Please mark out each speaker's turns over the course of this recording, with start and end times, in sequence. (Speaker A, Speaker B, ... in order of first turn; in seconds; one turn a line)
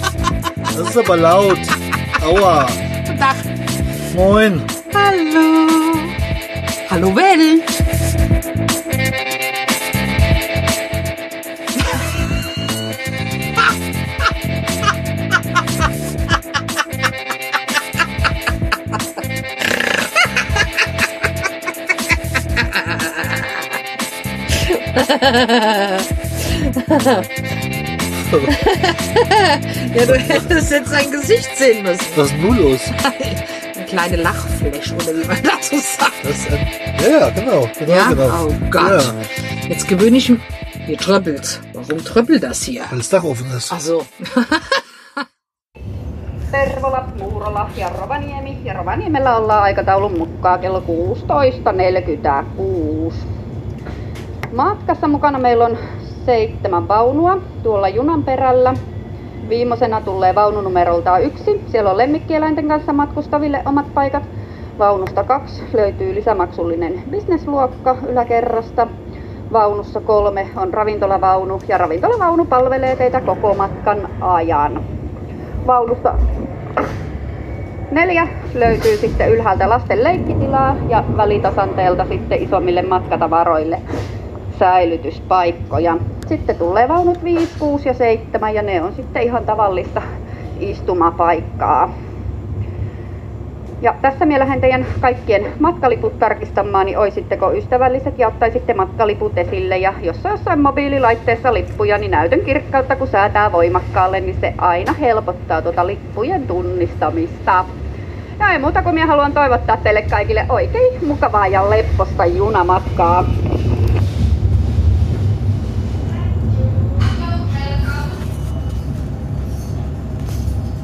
Speaker A: 0.7-2.8
Speaker B: 3.0-3.5
Speaker A: 4.1-4.7
Speaker B: 4.9-6.2
Speaker B: 6.9-7.7
Speaker B: 22.6-23.7
Speaker B: 24.5-27.3
Speaker A: 28.2-28.5
Speaker B: 28.5-32.2
Speaker A: 32.1-32.9
Speaker B: 32.9-36.2
Speaker A: 36.2-39.2
Speaker B: 37.9-43.0
Speaker A: 42.9-43.8
Speaker B: 43.7-44.8
Speaker C: 46.5-53.2
Speaker C: 54.5-58.8
Speaker C: 59.5-64.3
Speaker C: 64.8-68.9
Speaker C: 69.5-74.8
Speaker C: 75.7-76.2
Speaker C: 77.9-83.8
Speaker C: 84.5-90.0
Speaker C: 90.6-91.9
Speaker C: 93.8-107.7
Speaker C: 108.4-113.3
Speaker C: 117.0-117.9